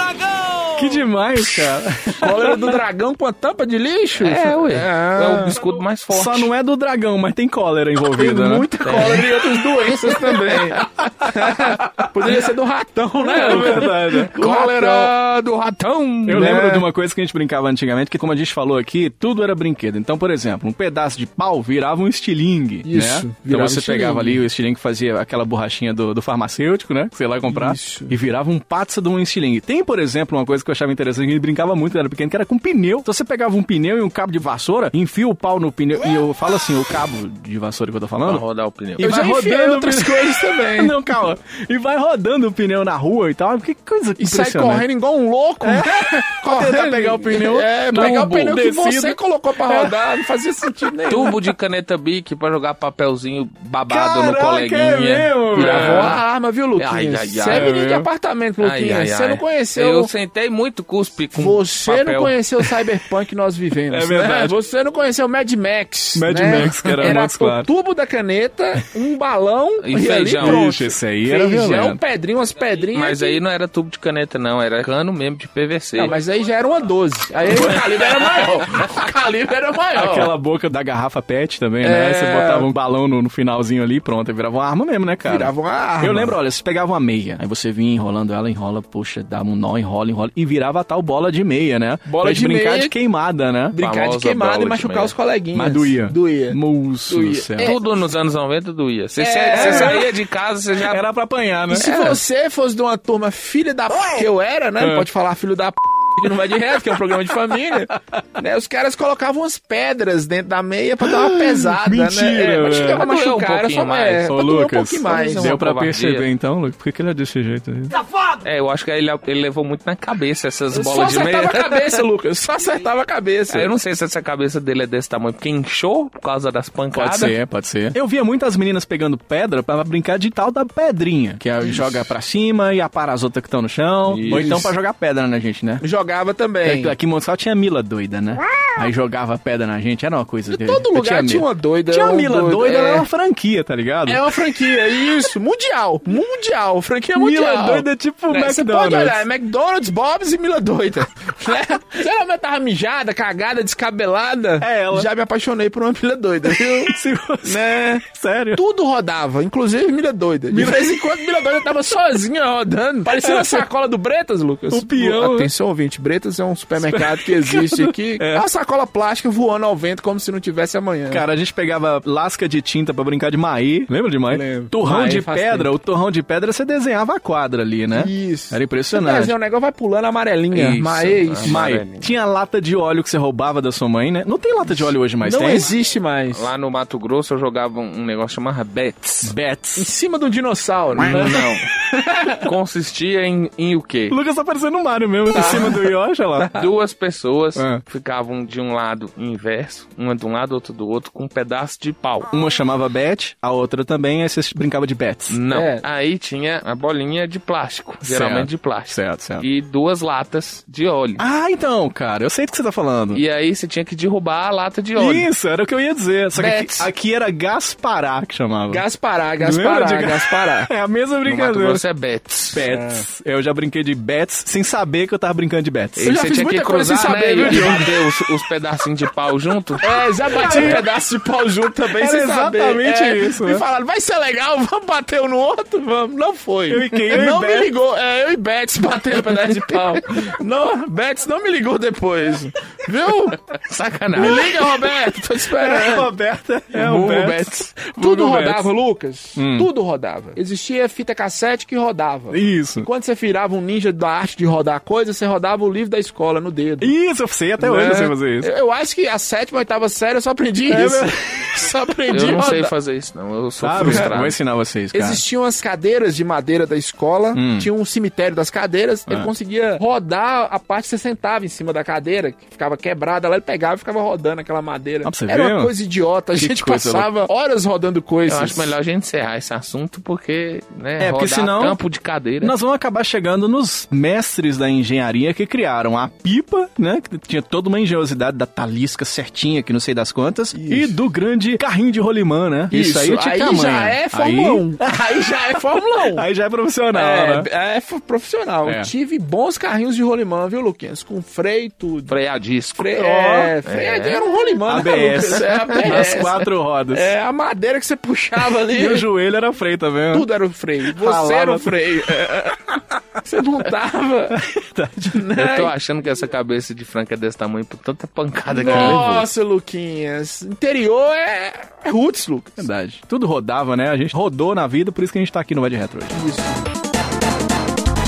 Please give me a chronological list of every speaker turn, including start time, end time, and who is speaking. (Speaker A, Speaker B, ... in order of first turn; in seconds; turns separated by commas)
Speaker A: 0.7-2.8, Speaker B: 2.2-5.6, Speaker C: 4.2-6.5, Speaker A: 6.1-9.2, Speaker B: 8.1-15.1, Speaker C: 8.8-9.2, Speaker A: 11.2-12.1, Speaker A: 13.3-14.3, Speaker C: 13.4-16.5, Speaker A: 16.3-38.4, Speaker B: 16.3-16.8, Speaker B: 22.8-24.4, Speaker B: 27.5-28.1, Speaker C: 38.2-39.0, Speaker A: 39.0-44.9, Speaker B: 39.0-40.9, Speaker B: 44.2-51.3, Speaker A: 45.6-50.0, Speaker C: 51.1-56.2, Speaker A: 53.9-56.2, Speaker B: 55.6-60.1, Speaker C: 56.8-57.7, Speaker A: 57.5-58.1, Speaker C: 58.6-62.4, Speaker B: 61.3-73.4, Speaker A: 63.9-64.6, Speaker A: 66.1-67.7, Speaker C: 69.8-70.7, Speaker A: 70.4-72.0, Speaker C: 72.9-76.1, Speaker B: 76.0-80.3, Speaker A: 80.0-93.8, Speaker B: 81.8-82.7, Speaker B: 85.2-86.3, Speaker B: 92.0-92.9, Speaker B: 93.7-97.8, Speaker C: 93.8-95.1, Speaker A: 95.5-97.7, Speaker C: 97.6-101.0, Speaker B: 99.2-100.0, Speaker A: 99.5-100.1, Speaker A: 100.8-102.2, Speaker B: 101.7-115.5, Speaker A: 104.8-105.1, Speaker A: 111.0-113.0, Speaker C: 112.7-114.3, Speaker A: 114.3-118.0, Speaker C: 115.1-116.2, Speaker C: 118.4-122.0, Speaker B: 120.7-123.7, Speaker C: 123.5-127.3, Speaker A: 126.9-135.8, Speaker C: 134.1-134.6, Speaker B: 134.2-134.7, Speaker B: 135.8-136.9, Speaker A: 136.6-144.2, Speaker B: 140.5-143.1, Speaker B: 144.1-158.0, Speaker A: 147.2-149.2, Speaker A: 154.6-155.1, Speaker A: 156.4-158.6, Speaker B: 158.5-171.2, Speaker A: 160.5-161.1, Speaker A: 163.1-163.6, Speaker A: 164.7-165.5, Speaker A: 166.8-168.4, Speaker A: 171.1-179.3, Speaker B: 174.3-175.7, Speaker B: 177.9-181.6, Speaker A: 180.5-180.8, Speaker C: 180.7-182.1, Speaker A: 181.5-185.7, Speaker B: 184.7-186.4, Speaker C: 186.3-189.3, Speaker A: 189.2-189.9, Speaker B: 189.8-191.4, Speaker A: 191.1-191.4, Speaker C: 191.1-191.7, Speaker B: 191.9-192.4, Speaker C: 192.3-194.2, Speaker A: 194.1-196.5, Speaker B: 195.3-195.8, Speaker C: 196.5-202.3, Speaker A: 197.6-197.8, Speaker A: 202.3-205.4, Speaker C: 205.3-211.2, Speaker B: 205.5-205.8, Speaker A: 208.0-209.4, Speaker A: 211.2-213.2, Speaker C: 213.1-215.3, Speaker A: 214.9-218.8, Speaker B: 216.3-216.9, Speaker B: 218.7-220.7, Speaker A: 219.4-221.8, Speaker C: 221.2-222.6, Speaker A: 222.5-226.2, Speaker B: 222.7-223.0, Speaker C: 226.0-229.8, Speaker B: 226.0-228.0, Speaker A: 227.1-227.9, Speaker B: 229.8-243.4, Speaker A: 230.3-230.9, Speaker A: 231.8-233.6, Speaker A: 236.7-237.7, Speaker A: 239.3-240.0, Speaker C: 243.5-244.6, Speaker B: 244.1-246.1, Speaker A: 244.2-244.5, Speaker A: 245.5-248.7, Speaker C: 246.7-247.7, Speaker B: 247.8-256.9, Speaker A: 249.3-249.7, Speaker A: 252.3-252.9, Speaker A: 256.8-258.5, Speaker B: 257.6-262.7, Speaker A: 260.7-261.5, Speaker C: 262.1-264.4, Speaker A: 263.6-265.2, Speaker B: 263.8-264.1, Speaker B: 264.9-278.7, Speaker A: 267.3-267.7, Speaker A: 275.0-275.7, Speaker A: 276.4-277.1, Speaker C: 278.2-282.5, Speaker A: 281.0-281.8, Speaker A: 282.4-295.0, Speaker B: 290.5-290.9, Speaker B: 292.7-296.2, Speaker A: 295.5-297.5, Speaker B: 296.9-302.1, Speaker A: 298.6-298.9, Speaker C: 302.1-302.9, Speaker B: 302.8-309.1, Speaker A: 302.9-303.5, Speaker C: 303.6-304.2, Speaker A: 304.7-307.1, Speaker A: 308.5-310.3, Speaker B: 310.1-312.7, Speaker A: 310.8-312.3, Speaker B: 313.2-314.4, Speaker A: 314.3-315.2, Speaker B: 315.1-315.7, Speaker C: 315.3-319.3, Speaker B: 318.5-322.6, Speaker A: 318.6-319.0, Speaker A: 322.6-326.1, Speaker B: 326.1-326.6